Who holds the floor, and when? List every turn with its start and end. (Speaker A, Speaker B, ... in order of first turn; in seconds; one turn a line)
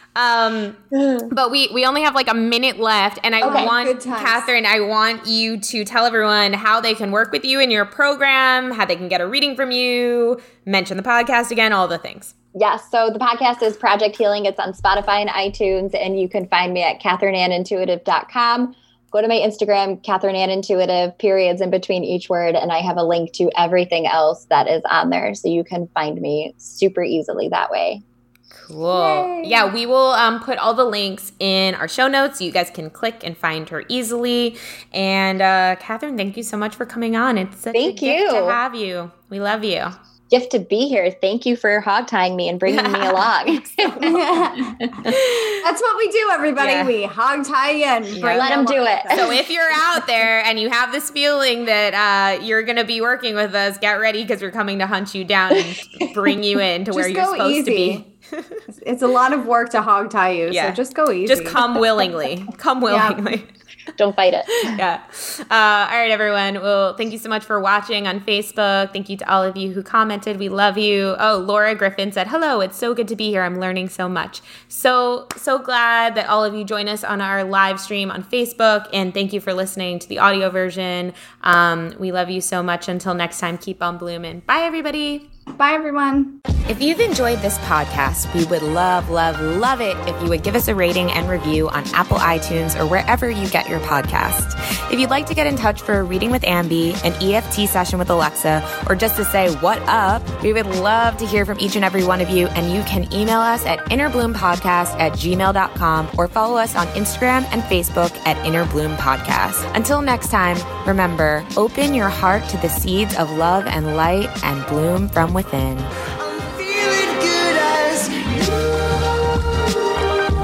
Speaker A: 0.1-12.3
Speaker B: 1.0-1.3
Speaker C: 3.4-4.5
Speaker B: 3.4-3.7
Speaker B: 12.6-28.0
Speaker A: 28.6-40.0
Speaker C: 28.9-29.7
Speaker B: 37.7-38.6
Speaker B: 40.3-45.1
Speaker A: 42.6-44.2
Speaker C: 44.0-49.5
Speaker A: 45.0-45.6
Speaker A: 46.6-46.9
Speaker A: 48.1-48.5
Speaker B: 48.2-49.5
Speaker A: 49.1-58.6
Speaker C: 56.9-58.1
Speaker C: 58.7-62.0
Speaker A: 60.5-63.5
Speaker C: 62.9-63.2
Speaker B: 64.0-64.8
Speaker A: 64.6-85.3
Speaker C: 85.6-86.4
Speaker A: 86.7-119.5